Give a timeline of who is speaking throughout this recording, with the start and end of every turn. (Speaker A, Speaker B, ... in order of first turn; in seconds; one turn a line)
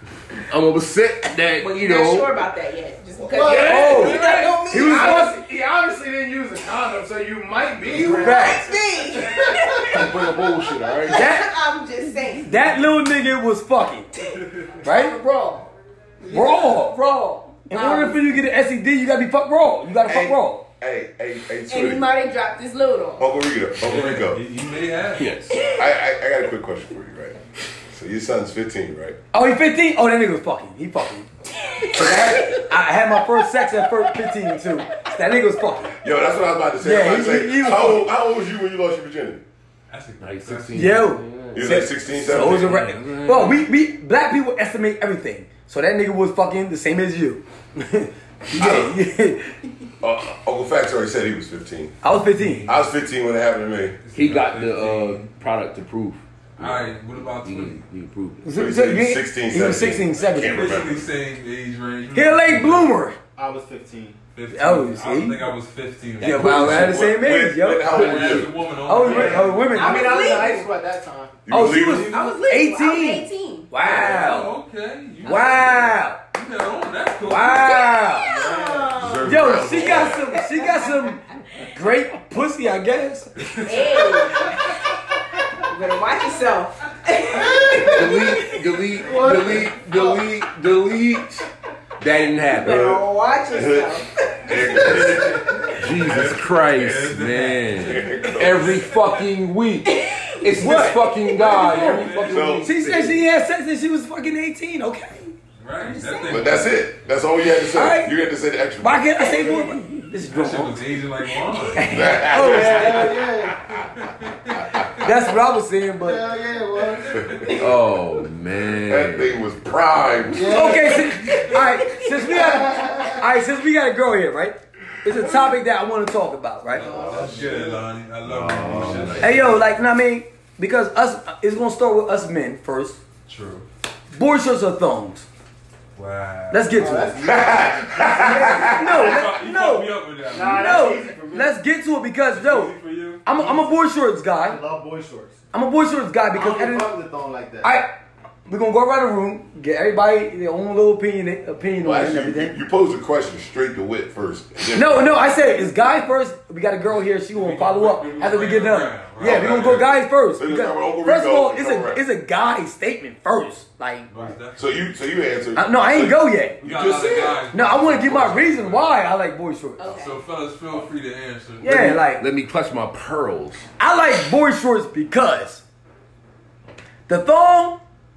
Speaker A: 0.4-2.3
Speaker B: 1.6-5.3
Speaker C: 3.2-10.0
Speaker A: 3.5-4.7
Speaker D: 3.6-5.4
Speaker D: 8.1-8.7
Speaker B: 8.1-10.1
Speaker A: 9.9-11.3
Speaker B: 11.1-12.8
Speaker D: 11.1-11.5
Speaker D: 12.4-14.1
Speaker B: 14.2-15.7
Speaker D: 14.8-15.2
Speaker B: 16.2-16.8
Speaker D: 16.3-20.6
Speaker B: 17.6-18.3
Speaker E: 20.0-22.1
Speaker B: 21.7-23.3
Speaker E: 23.2-24.4
Speaker F: 23.8-25.3
Speaker A: 25.2-25.6
Speaker E: 25.8-27.4
Speaker E: 27.9-29.2
Speaker D: 29.3-31.3
Speaker D: 31.9-35.9
Speaker E: 36.0-39.4
Speaker D: 36.8-38.1
Speaker F: 39.9-41.1
Speaker A: 40.2-43.7
Speaker D: 40.7-49.5
Speaker E: 41.5-42.9
Speaker E: 48.5-49.0
Speaker E: 50.0-52.0
Speaker D: 52.0-52.7
Speaker F: 52.0-53.0
Speaker E: 52.6-54.0
Speaker F: 54.0-55.3
Speaker A: 54.1-58.4
Speaker F: 56.6-57.8
Speaker D: 58.4-60.8
Speaker E: 58.5-61.1
Speaker F: 60.3-63.0
Speaker D: 62.1-63.2
Speaker C: 63.4-64.2
Speaker F: 64.3-67.0
Speaker D: 64.5-65.5
Speaker D: 66.2-68.0
Speaker E: 66.2-68.5
Speaker A: 66.2-67.0
Speaker A: 67.8-68.5
Speaker F: 67.9-69.7
Speaker D: 68.8-70.3
Speaker C: 69.0-71.7
Speaker B: 69.7-70.7
Speaker E: 71.5-72.2
Speaker D: 71.5-74.5
Speaker B: 71.8-73.7
Speaker F: 73.8-79.0
Speaker D: 75.2-76.2
Speaker D: 77.2-78.4
Speaker B: 77.5-81.7
Speaker E: 78.9-80.3
Speaker D: 79.2-83.3
Speaker F: 83.4-84.2
Speaker B: 83.6-84.9
Speaker B: 85.7-89.4
Speaker A: 87.9-91.4
Speaker C: 89.0-90.2
Speaker A: 92.0-93.0
Speaker B: 92.5-95.0
Speaker E: 92.6-95.5
Speaker F: 94.8-99.2
Speaker A: 95.8-103.2
Speaker E: 97.8-98.8
Speaker B: 99.8-100.5
Speaker D: 100.5-105.3
Speaker B: 101.1-101.9
Speaker F: 101.5-102.7
Speaker E: 102.3-102.7
Speaker F: 105.6-107.1
Speaker B: 105.8-106.4
Speaker E: 106.3-109.3
Speaker D: 107.7-108.1
Speaker D: 108.8-111.0
Speaker F: 110.3-112.0
Speaker D: 111.7-113.0
Speaker E: 111.8-113.2
Speaker C: 112.3-113.6
Speaker F: 112.9-115.1
Speaker E: 114.5-114.9
Speaker D: 115.0-116.2
Speaker C: 116.0-117.2
Speaker F: 117.0-117.6
Speaker A: 117.5-119.4
Speaker E: 118.8-120.8
Speaker C: 120.3-121.1
Speaker D: 120.4-126.9
Speaker B: 121.2-122.3
Speaker C: 122.3-123.2
Speaker F: 126.7-129.8
Speaker C: 126.8-127.8
Speaker E: 126.8-127.3
Speaker A: 128.2-129.6
Speaker D: 129.2-133.0
Speaker F: 133.2-133.7
Speaker D: 134.1-135.2
Speaker F: 135.9-137.0
Speaker D: 136.5-137.1
Speaker C: 136.8-139.2
Speaker E: 137.2-138.8
Speaker F: 138.1-141.0
Speaker D: 138.5-144.6
Speaker C: 140.3-141.5
Speaker F: 142.3-143.2
Speaker C: 143.3-143.7
Speaker C: 144.4-145.4
Speaker D: 145.5-146.9
Speaker C: 146.3-147.8
Speaker D: 147.6-147.9
Speaker D: 148.5-152.6
Speaker E: 151.8-155.5
Speaker D: 154.7-164.3
Speaker F: 156.9-159.9
Speaker E: 159.2-162.0
Speaker F: 164.1-165.0
Speaker E: 164.6-167.4
Speaker D: 165.6-166.6
Speaker F: 166.6-169.0
Speaker D: 167.5-169.8
Speaker B: 169.8-170.2
Speaker F: 169.8-171.9
Speaker D: 171.6-172.2
Speaker A: 171.6-173.7
Speaker D: 173.8-175.6
Speaker D: 177.1-177.8